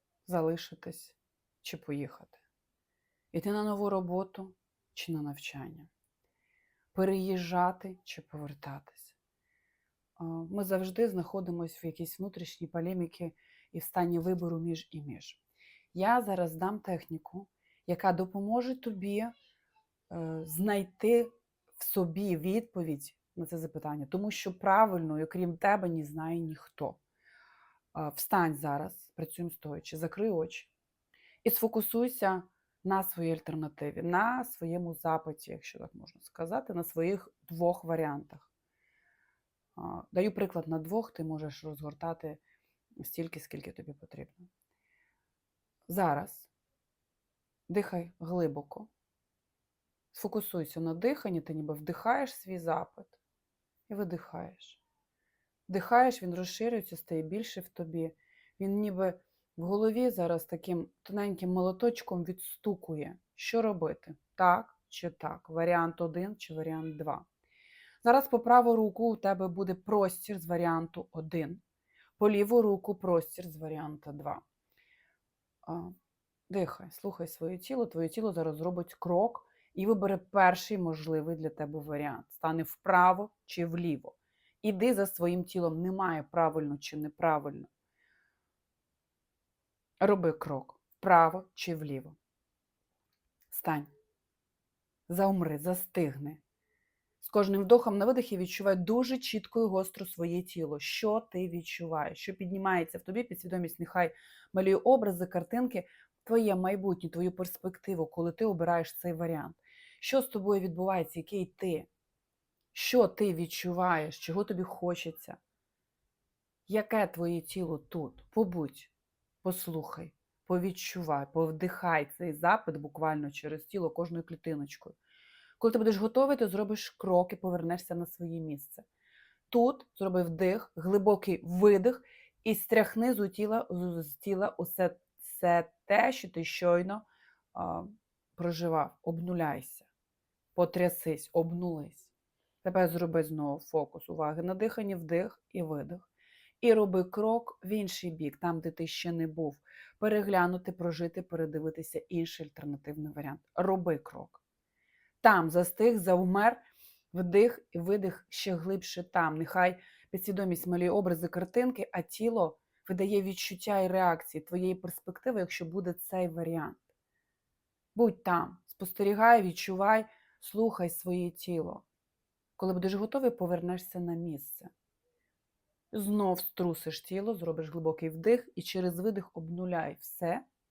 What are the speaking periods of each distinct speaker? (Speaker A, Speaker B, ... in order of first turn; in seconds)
Speaker A: 0.2-2.4, 3.3-5.9, 6.9-9.2, 10.2-15.4, 15.9-19.3, 20.1-27.0, 27.9-30.7, 31.4-38.5, 39.8-42.4, 43.0-44.5, 45.9-46.5, 47.7-48.9, 50.1-53.2, 53.9-54.8, 55.7-67.3, 68.0-71.6, 72.2-74.4, 75.7-76.0, 76.5-87.7, 90.0-92.2, 93.5-93.9, 95.1-96.4, 97.2-111.9, 112.7-115.4, 116.7-118.9, 119.4-125.0, 125.6-128.8, 129.5-139.9, 140.6-142.1, 142.6-146.1, 146.6-154.4, 155.2-156.6, 157.1-166.9, 167.9-171.8, 172.6-174.7, 175.9-180.4